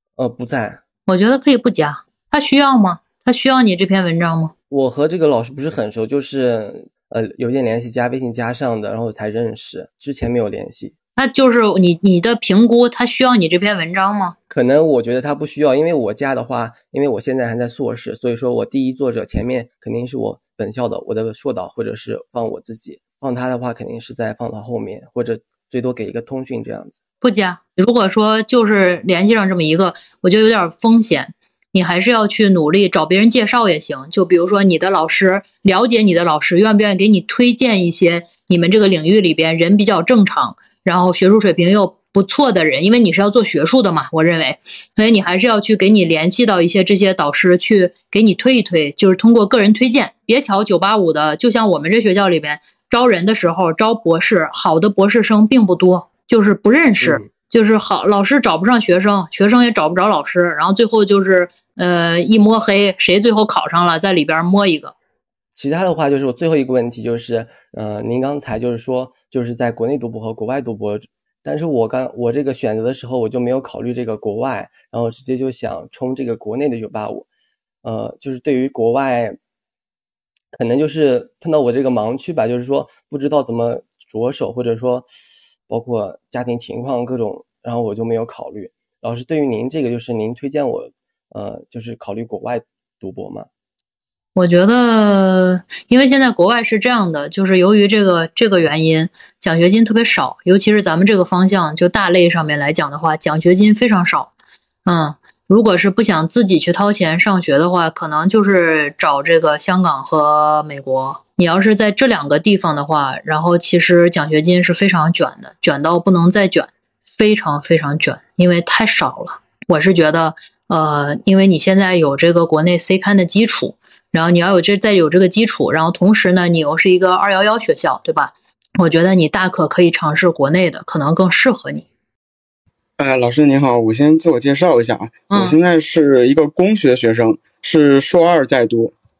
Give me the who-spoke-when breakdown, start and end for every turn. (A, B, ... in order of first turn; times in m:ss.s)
0:00.2-0:00.8 A
0:01.1-0:04.5 B
0:04.7-0:10.9 A
0:11.2-0:14.3 B
0:14.5-0:27.0 A
0:27.2-1:04.9 B
0:57.0-0:57.3 A
1:05.5-1:17.2 A
1:17.8-1:19.4 A
1:20.5-1:25.1 A
1:25.7-1:33.5 A
1:34.4-1:44.3 B
1:44.8-2:11.8 B
2:13.0-2:18.9 C
2:15.3-2:15.6 B